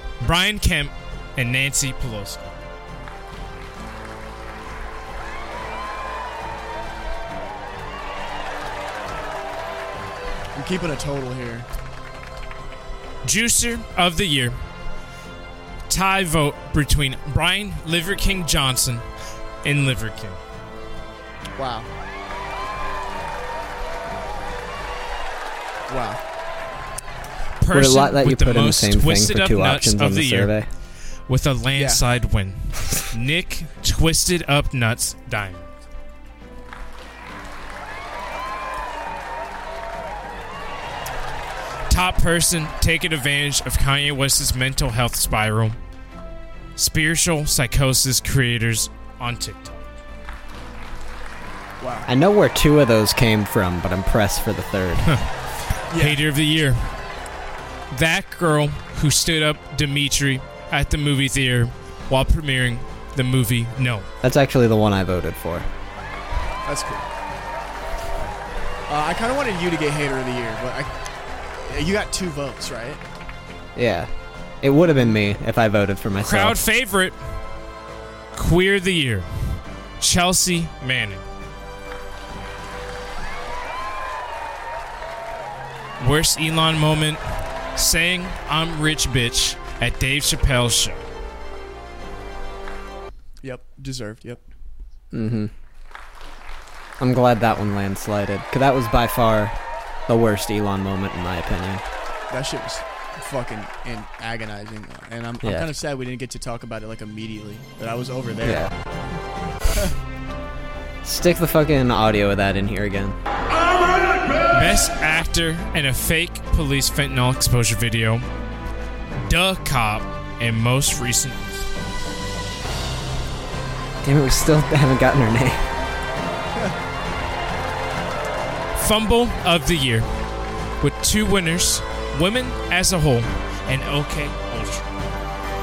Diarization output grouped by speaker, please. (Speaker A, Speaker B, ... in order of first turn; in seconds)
Speaker A: 0.2-2.6, 13.2-14.6, 15.9-19.1, 19.6-20.4, 27.6-30.7, 31.3-35.8, 41.9-45.8, 46.8-49.9, 55.1-57.1, 57.9-64.1, 76.2-77.2, 78.3-81.2, 86.0-87.2, 87.7-91.0, 114.5-118.2, 119.2-121.7, 128.7-130.1, 130.8-135.0
Speaker B: 10.5-11.7, 21.6-21.9, 25.9-26.2, 31.8-32.0, 51.8-52.1, 55.9-56.2, 66.6-67.1, 68.9-70.9, 71.5-73.0, 93.4-94.4, 102.3-108.7
Speaker C: 27.7-30.7, 52.1-55.2, 64.2-65.7, 73.8-76.6, 95.1-95.5, 97.0-101.8, 105.4-105.7, 108.4-108.7, 111.0-113.2, 124.0-125.7